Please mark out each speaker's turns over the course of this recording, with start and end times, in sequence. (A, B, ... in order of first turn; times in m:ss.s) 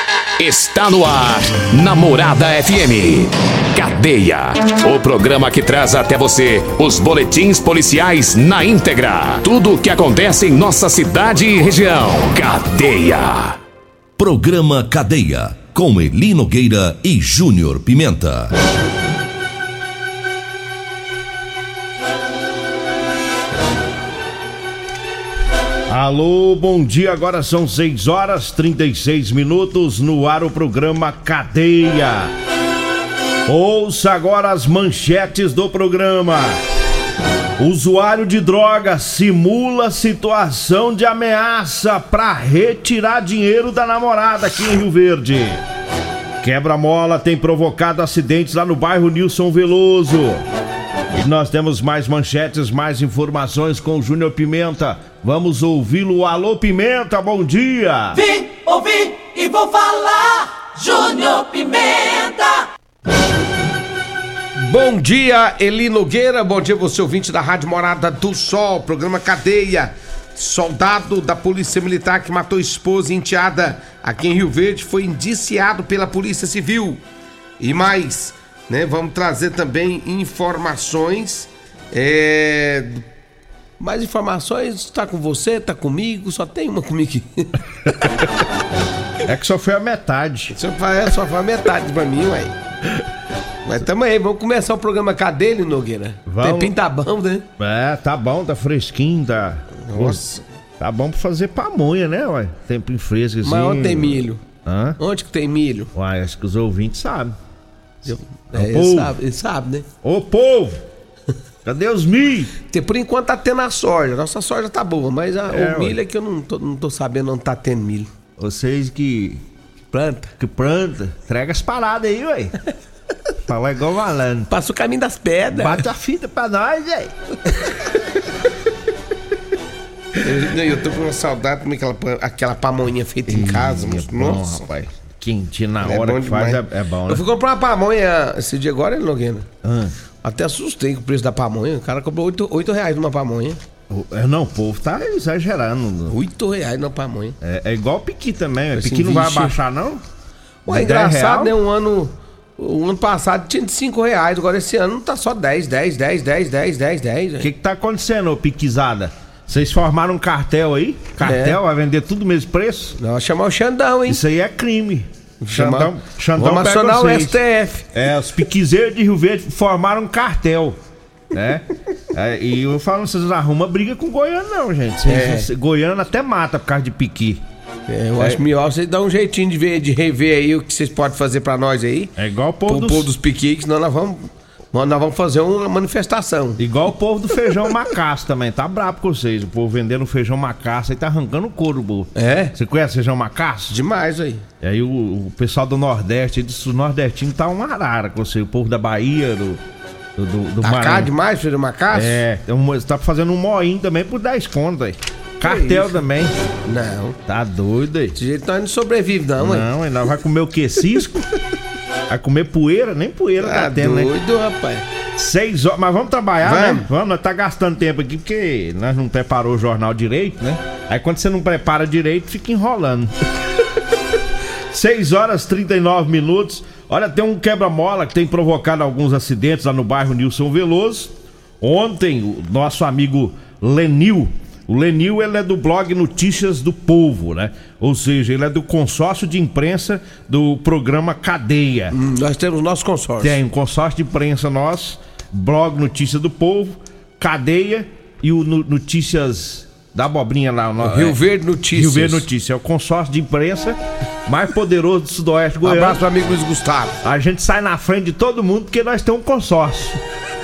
0:00.4-0:13.6 A
0:14.2-0:18.5 B
0:25.9-0:32.3 C
0:33.5-0:36.6 C
0:37.6-0:45.6 C
0:46.4-0:50.4 C
0:51.2-0:58.2 C
0:58.4-1:00.2 D
1:00.8-1:02.4 D
1:04.6-1:17.0 E
1:17.6-1:23.0 E
1:23.8-1:27.6 E
1:29.2-1:30.6 C
1:30.5-1:32.5 E
1:33.6-1:37.4 E
1:36.3-1:36.7 C
1:37.6-1:40.2 C
1:39.9-1:40.4 E
1:40.8-1:45.0 C
1:43.4-1:44.4 E
1:45.0-1:45.9 E
1:45.9-1:47.3 C
1:48.0-1:49.8 E
1:48.1-1:49.1 C
1:50.0-1:50.8 C
1:51.6-1:52.5 C
1:52.7-1:58.1 E
1:55.5-1:56.0 C
1:58.4-1:59.4 C
1:59.9-2:00.3 E
2:00.4-2:02.5 C
2:03.4-2:04.5 C
2:04.5-2:05.8 E
2:05.5-2:07.1 C
2:10.2-2:14.6 E
2:13.3-2:17.2 C
2:15.8-2:19.5 E
2:19.6-2:19.9 C
2:20.2-2:23.6 E
2:23.9-2:26.1 C
2:26.1-2:27.4 E
2:27.4-2:30.0 C
2:28.7-2:29.5 E
2:30.6-2:37.5 E
2:30.7-2:31.5 C
2:37.4-2:43.0 C
2:41.2-2:41.6 E
2:43.0-2:44.2 E
2:44.1-2:47.4 C
2:45.4-2:47.8 E
2:47.9-2:50.8 C
2:51.3-2:57.4 C
2:55.1-2:55.5 E
2:57.9-3:02.1 E
2:58.2-2:58.4 C
3:02.2-3:03.1 C
3:02.7-3:06.6 E
3:06.6-3:13.8 C
3:12.2-3:12.5 E
3:13.7-3:14.4 E
3:14.6-3:19.6 C
3:20.2-3:21.1 C
3:20.6-3:22.2 E
3:21.9-3:26.3 C
3:25.4-3:26.0 E
3:26.6-3:27.2 E
3:27.3-3:28.2 C
3:28.2-3:29.6 E
3:29.4-3:31.2 C
3:32.1-3:34.1 C
3:33.4-3:34.8 E
3:35.2-3:43.1 C
3:36.4-3:36.8 E
3:44.7-4:02.0 C
4:01.9-4:03.4 E
4:03.2-4:11.2 C
4:10.8-4:12.2 E
4:11.7-4:16.0 C
4:15.6-4:17.0 E
4:17.0-4:20.0 C